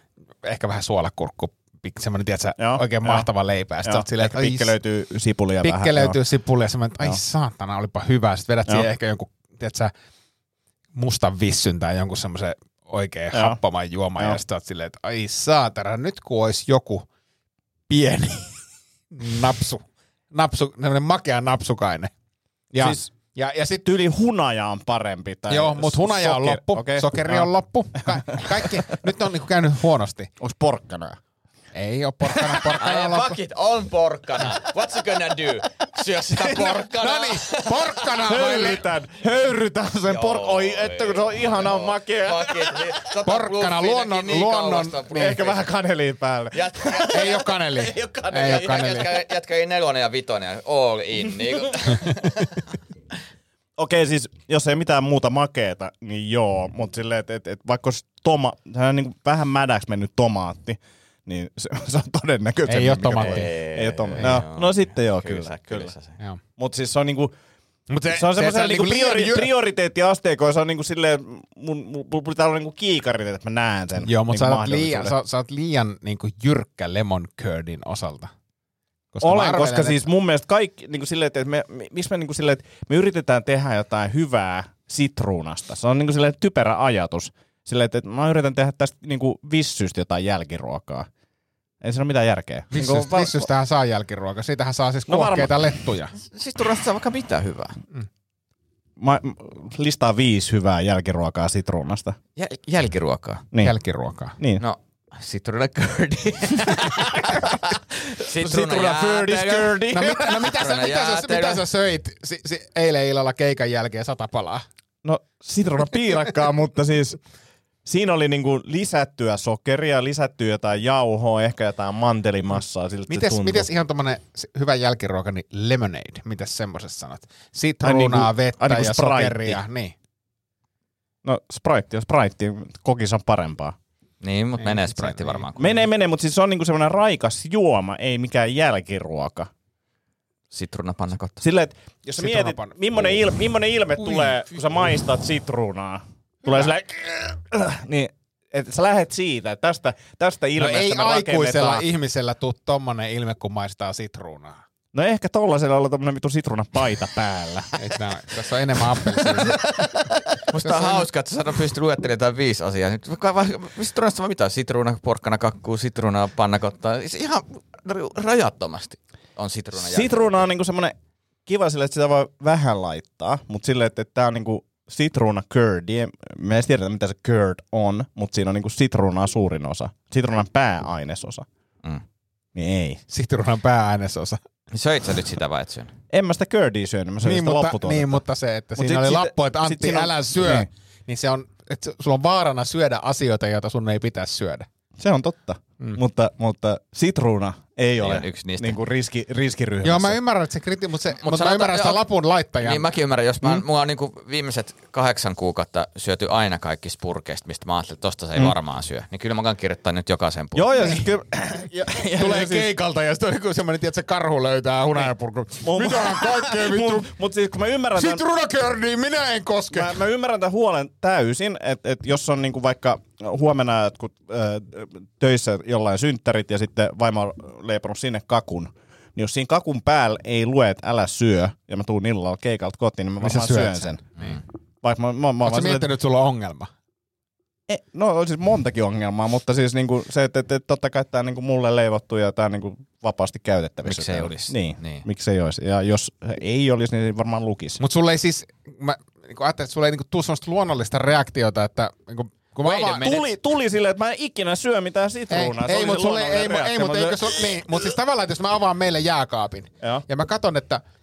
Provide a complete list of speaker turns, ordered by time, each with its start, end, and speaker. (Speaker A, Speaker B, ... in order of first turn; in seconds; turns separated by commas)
Speaker A: 0.4-4.7, Speaker B: 2.6-3.3, Speaker B: 3.8-6.2, Speaker A: 5.6-9.9, Speaker A: 11.0-17.1, Speaker B: 13.3-13.6, Speaker A: 17.9-18.6, Speaker A: 19.1-22.1, Speaker A: 22.7-23.9, Speaker B: 22.8-23.1, Speaker B: 23.9-27.5, Speaker A: 25.5-30.3, Speaker B: 28.0-28.7, Speaker B: 30.4-31.2, Speaker A: 31.7-33.4, Speaker C: 32.7-38.1, Speaker B: 36.5-36.8, Speaker A: 36.5-38.8, Speaker B: 38.2-43.0, Speaker C: 40.1-45.7, Speaker A: 43.2-45.4, Speaker B: 45.1-47.3, Speaker C: 46.5-52.8, Speaker A: 47.1-49.1, Speaker B: 53.8-65.9, Speaker A: 62.7-63.5, Speaker C: 63.2-66.2, Speaker B: 66.6-67.3, Speaker A: 67.9-69.5, Speaker B: 68.1-75.2, Speaker A: 74.0-78.3, Speaker A: 79.1-80.0, Speaker B: 79.2-91.1, Speaker B: 91.8-93.5, Speaker A: 92.7-96.1, Speaker B: 95.1-95.7, Speaker C: 96.2-97.8, Speaker B: 99.0-102.2, Speaker C: 102.4-103.5, Speaker A: 103.6-104.4, Speaker B: 104.4-104.6, Speaker C: 104.6-111.7, Speaker B: 108.3-110.3, Speaker A: 109.9-114.7, Speaker B: 115.0-117.2, Speaker B: 117.8-123.7, Speaker A: 123.1-129.9, Speaker B: 127.8-129.6, Speaker B: 131.2-133.8, Speaker C: 134.2-135.8, Speaker A: 134.6-135.4, Speaker B: 135.6-139.5, Speaker C: 140.5-141.4, Speaker B: 141.4-151.8, Speaker A: 142.2-143.2, Speaker A: 144.0-144.5, Speaker A: 146.4-146.8, Speaker A: 150.6-154.6, Speaker B: 154.9-157.7, Speaker A: 157.8-159.7, Speaker C: 159.1-170.4, Speaker A: 160.6-161.1, Speaker B: 169.8-170.9, Speaker B: 171.5-181.5, Speaker B: 182.5-183.0, Speaker A: 183.1-184.4, Speaker C: 184.7-185.9, Speaker B: 186.1-188.2, Speaker A: 187.2-194.7, Speaker B: 188.8-190.7, Speaker B: 195.0-200.2, Speaker C: 198.0-198.8, Speaker A: 199.8-202.8, Speaker C: 201.2-202.1, Speaker C: 202.6-210.8, Speaker B: 210.6-212.7, Speaker A: 210.8-211.0, Speaker A: 212.2-217.1, Speaker B: 215.6-218.2, Speaker A: 218.0-220.0, Speaker B: 219.7-234.3, Speaker A: 233.2-234.4, Speaker B: 234.8-235.9, Speaker A: 235.4-236.7, Speaker B: 237.7-247.8, Speaker C: 243.8-245.1, Speaker A: 247.8-253.1, Speaker C: 252.6-253.3, Speaker B: 252.9-257.6, Speaker A: 255.3-260.8